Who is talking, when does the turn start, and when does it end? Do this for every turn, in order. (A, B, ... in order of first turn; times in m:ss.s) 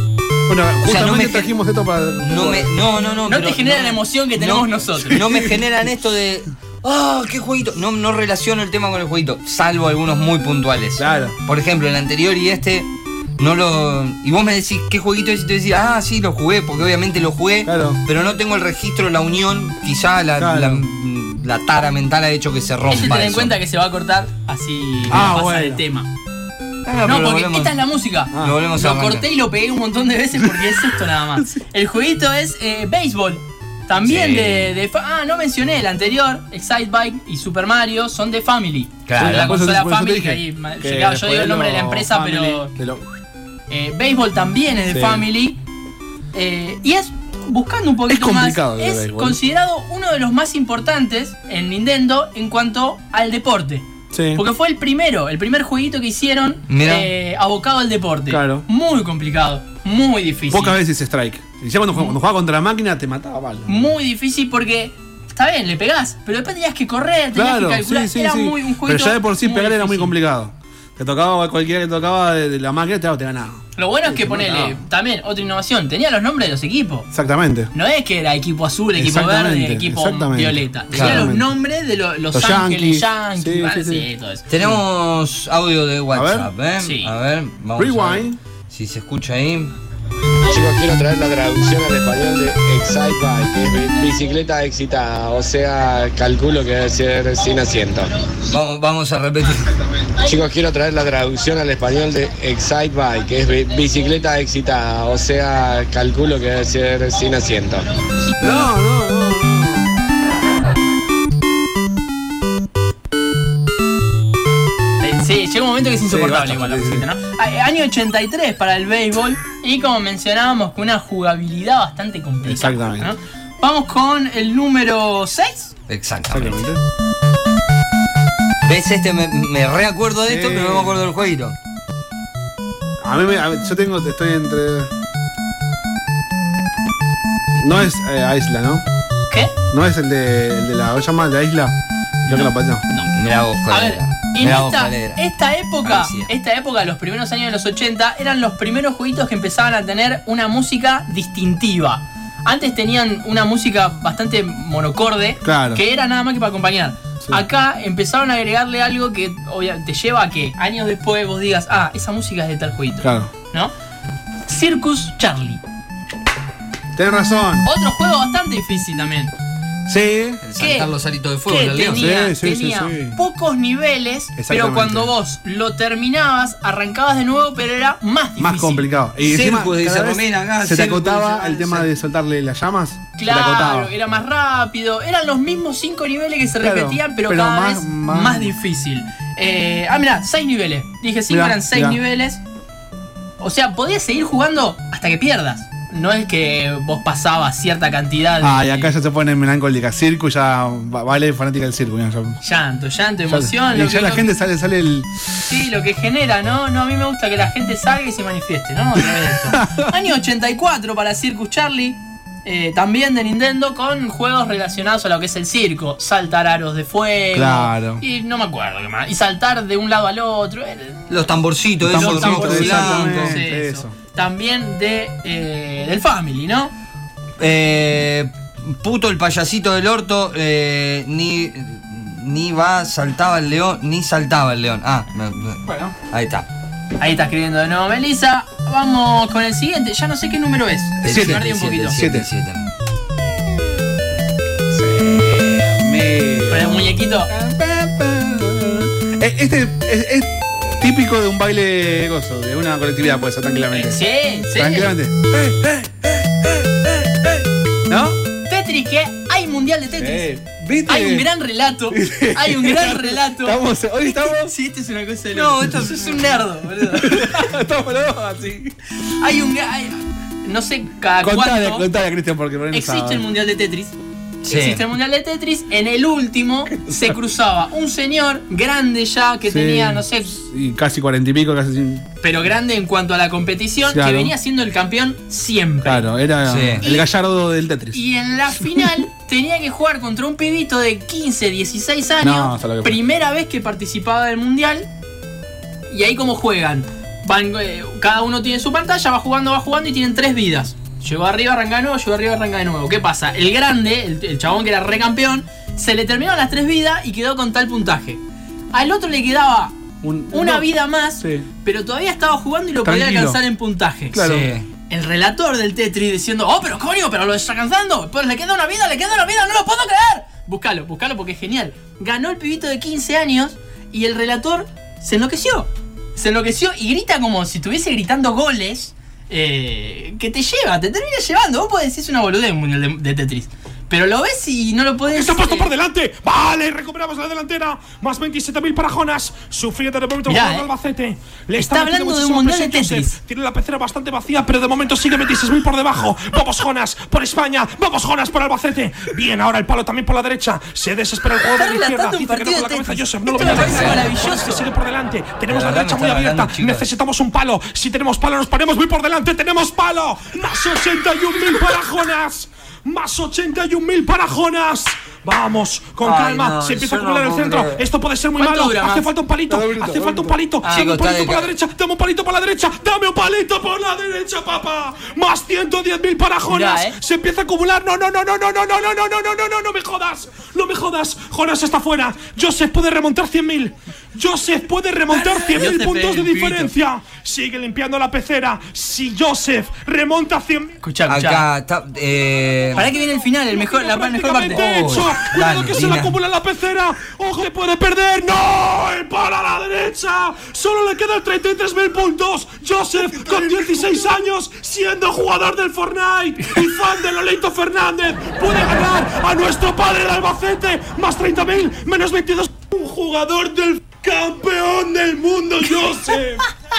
0:00.5-0:02.7 A
0:00.8-0:01.5 B
0:02.2-0:23.5 B
0:03.3-0:05.2 C
0:05.1-0:05.6 A
0:11.0-0:11.3 A
0:17.6-0:18.0 A
0:20.4-0:20.8 A
0:22.9-0:26.1 C
0:25.1-0:25.8 A
0:26.8-0:27.8 B
0:27.0-0:42.7 C
0:28.3-0:28.6 A
0:28.4-0:29.3 B
0:30.4-0:31.6 A
0:34.0-0:34.7 B
0:39.1-0:39.6 B
0:39.2-0:43.0 A
0:43.7-0:45.6 C
0:44.9-0:45.2 A
0:46.3-1:00.8 C
0:48.1-0:49.4 A
0:54.1-0:54.4 A
0:56.7-0:57.1 B
0:58.3-0:58.6 A
1:00.5-1:03.9 A
1:03.6-1:10.1 C
1:07.3-1:14.8 A
1:13.8-1:17.1 C
1:17.1-1:17.7 A
1:17.7-1:24.4 C
1:18.9-1:21.5 A
1:20.9-1:21.3 B
1:22.3-1:24.8 A
1:24.5-1:29.7 B
1:26.1-1:26.5 A
1:26.8-1:27.1 C
1:27.8-1:28.4 A
1:30.4-1:38.2 D
1:38.5-1:39.7 B
1:39.6-1:40.2 A
1:40.2-1:47.8 D
1:48.4-1:49.8 A
1:55.0-2:05.7 C
1:56.0-1:57.0 A
2:02.4-2:03.1 A
2:05.9-2:06.7 B
2:06.3-2:06.8 A
2:08.6-2:11.5 B
2:10.2-2:11.0 A
2:13.0-2:14.9 A
2:17.6-2:18.8 A
2:19.7-2:22.8 A
2:22.3-2:23.1 C
2:23.1-2:25.2 B
2:23.7-2:43.7 C
2:25.8-2:26.3 B
2:35.4-2:35.8 A
2:43.0-2:43.3 A
2:44.5-2:45.6 C
2:46.9-2:47.6 A
2:47.6-2:49.3 C
2:49.8-2:50.4 A
2:50.4-2:52.1 B
2:50.6-2:50.9 C
2:51.5-2:58.8 C
2:51.9-2:53.2 A
2:54.4-2:55.1 A
2:58.4-3:03.9 A
2:59.2-3:01.9 B
3:03.2-3:12.4 C
3:06.6-3:08.5 A
3:11.3-3:12.0 A
3:13.4-3:18.9 C
3:18.4-3:22.4 A
3:22.4-3:24.3 C
3:23.3-3:25.1 A
3:25.4-3:41.0 C
3:29.4-3:29.9 A
3:37.3-3:38.0 A
3:41.1-3:43.4 B
3:41.8-3:43.9 A
3:41.9-3:46.7 C
3:47.4-3:56.4 B
3:55.6-3:55.9 A
3:57.0-4:02.0 C
4:01.0-4:02.3 A
4:01.0-4:02.7 B
4:04.7-4:18.2 A
4:06.5-4:07.3 C
4:13.7-4:14.9 C
4:18.5-4:20.3 C
4:20.0-4:21.3 A
4:20.9-4:23.6 C
4:21.9-4:24.5 A
4:24.1-4:27.5 C
4:25.3-4:26.2 B
4:26.9-4:28.7 A
4:29.2-4:31.9 C
4:31.2-4:33.2 A
4:32.7-4:33.9 C
4:34.4-4:34.8 B
4:34.5-4:40.3 C
4:36.8-4:37.2 A
4:39.4-4:42.0 A
4:42.2-4:46.1 C
4:43.8-4:44.3 A
4:45.8-4:48.0 A
4:46.4-4:46.8 B
4:46.8-4:47.1 C
4:47.9-4:54.9 C
4:48.5-4:48.9 A
4:52.2-4:53.0 A
4:55.9-5:08.2 C
5:08.7-5:09.8 C
5:10.0-5:11.5 A
5:10.3-5:14.2 C
5:12.8-5:13.4 A
5:14.1-5:14.5 A
5:14.2-5:14.7 B
5:14.9-5:35.7 C
5:35.1-6:30.7 E
5:40.2-5:40.7 C
5:41.6-5:43.2 C
5:51.5-5:54.6 C
5:53.5-5:54.0 B
5:55.5-5:56.8 B
6:06.0-6:07.8 B
6:08.4-6:09.1 C
6:09.5-6:10.4 A
6:10.6-6:10.9 C
6:10.7-6:11.5 B
6:16.4-6:17.0 C
6:25.1-6:26.7 C
6:30.8-6:31.4 C
6:31.1-6:32.9 B
6:32.7-6:35.0 C
6:33.5-6:56.5 E
6:34.5-6:36.2 B